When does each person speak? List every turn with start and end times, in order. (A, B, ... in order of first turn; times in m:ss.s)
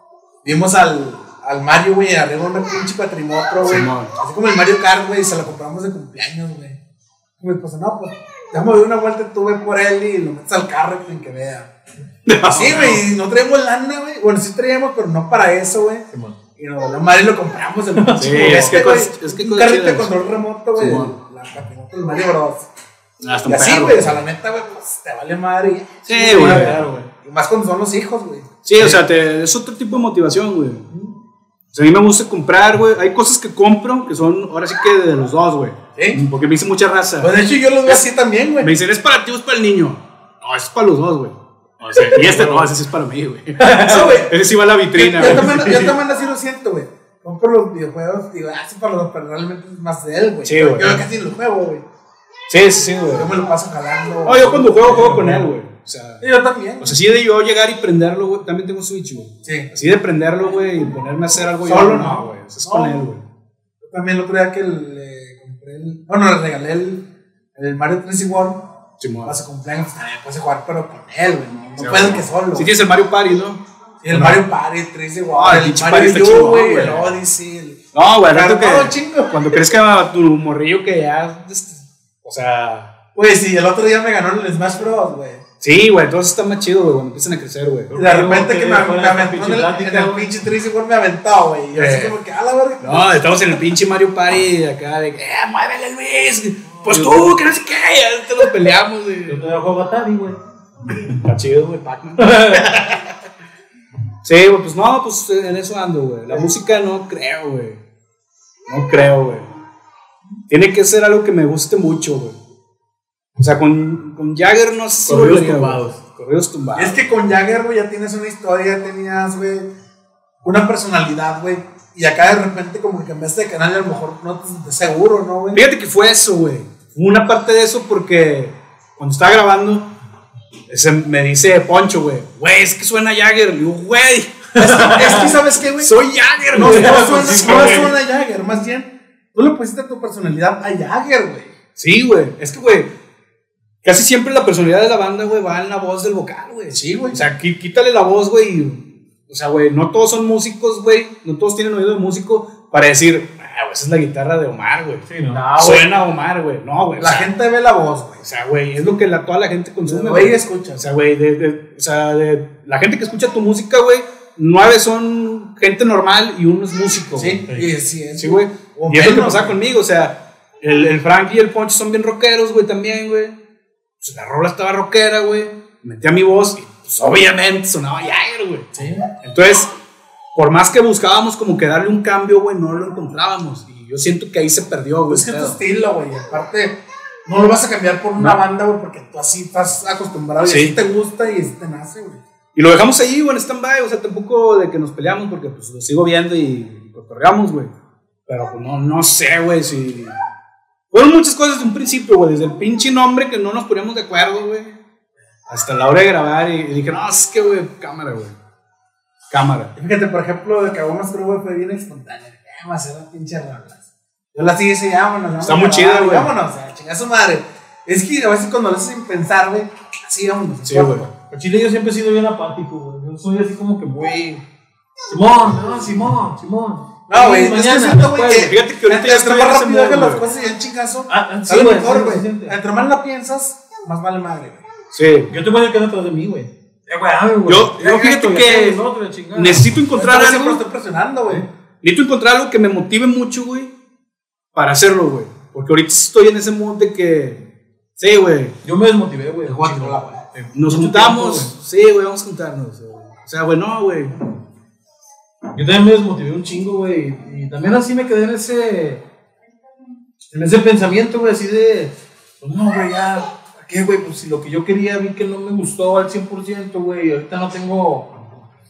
0:00.4-0:06.8 A
0:03.6-0:04.1 B
0:07.4-0:11.7 A
0:12.2-0:13.0 B
0:12.4-0:16.0 A
0:16.1-0:16.4 C
0:16.6-0:22.7 A
0:18.0-0:18.8 C
0:18.2-0:20.1 B
0:20.8-0:21.1 B
0:23.2-0:24.2 B
0:23.5-0:29.0 A
0:26.1-0:26.8 B
0:26.3-0:27.1 C
0:28.6-0:30.9 B
0:31.7-0:37.3 B
0:36.0-0:36.2 A
0:37.2-0:38.7 A
0:38.6-0:45.8 B
0:41.8-0:42.7 C
0:43.6-0:44.2 C
0:43.8-0:44.4 A
0:44.9-0:51.8 A
0:45.2-0:45.9 C
0:50.4-0:51.0 B
0:52.5-0:53.4 B
0:53.1-0:55.4 A
0:54.2-0:56.2 B
0:54.9-0:55.5 C
0:56.2-0:57.0 A
0:56.8-1:03.2 B
0:59.4-0:59.7 A
1:01.6-1:03.0 A
1:03.8-1:08.6 A
1:09.0-1:09.4 B
1:09.2-1:12.7 A
1:11.8-1:14.4 B
1:14.0-1:19.5 A
1:15.3-1:17.2 B
1:17.9-1:22.9 B
1:23.1-1:25.4 A
1:25.6-1:27.9 B
1:27.9-1:30.3 C
1:28.0-1:33.6 A
1:31.7-1:32.2 B
1:32.8-1:39.5 B
1:36.6-1:37.3 C
1:39.3-1:40.4 C
1:40.9-1:43.1 B
1:42.2-1:42.8 C
1:44.2-1:47.8 B
1:48.7-1:49.5 B
1:50.5-1:52.4 B
1:53.4-1:57.0 B
1:55.0-1:56.0 C
1:56.7-1:59.7 A
2:00.4-2:05.6 A
2:05.5-2:09.9 B
2:10.7-2:17.9 B
2:14.6-2:15.3 C
2:14.6-2:16.0 A
2:16.5-2:21.5 A
2:16.5-2:17.9 C
2:21.8-2:22.9 B
2:23.8-2:35.0 B
2:26.7-2:27.2 A
2:35.0-2:35.4 C
2:35.3-2:35.8 A
2:35.6-2:37.3 B
2:37.0-2:38.2 A
2:38.2-2:47.4 B
2:39.8-2:40.8 A
2:47.1-2:49.6 A
2:48.2-2:53.4 B
2:54.0-2:58.7 B
2:58.7-2:59.0 C
2:59.2-2:59.7 B
3:00.3-3:05.6 B
3:05.1-3:12.2 A
3:08.2-3:08.4 B
3:10.4-3:10.8 B
3:12.5-3:17.7 B
3:18.3-3:20.1 B
3:20.9-3:24.8 B
3:25.5-3:28.4 B
3:29.3-3:29.7 B
3:29.8-3:41.1 A
3:35.4-3:36.3 B
3:40.6-3:41.1 B
3:41.3-3:44.4 C
3:45.1-3:48.5 C
3:47.1-3:54.6 A
3:48.3-3:50.2 B
3:51.1-3:52.6 C
3:54.9-3:55.3 B
3:55.3-3:59.7 C
3:57.5-3:58.8 B
3:59.3-4:00.6 B
3:59.9-4:01.5 A
4:01.8-4:03.7 B
4:04.5-4:08.6 B
4:08.6-4:11.5 C
4:09.4-4:10.2 A
4:10.5-4:14.2 B
4:15.5-4:19.0 C
4:20.3-4:28.1 C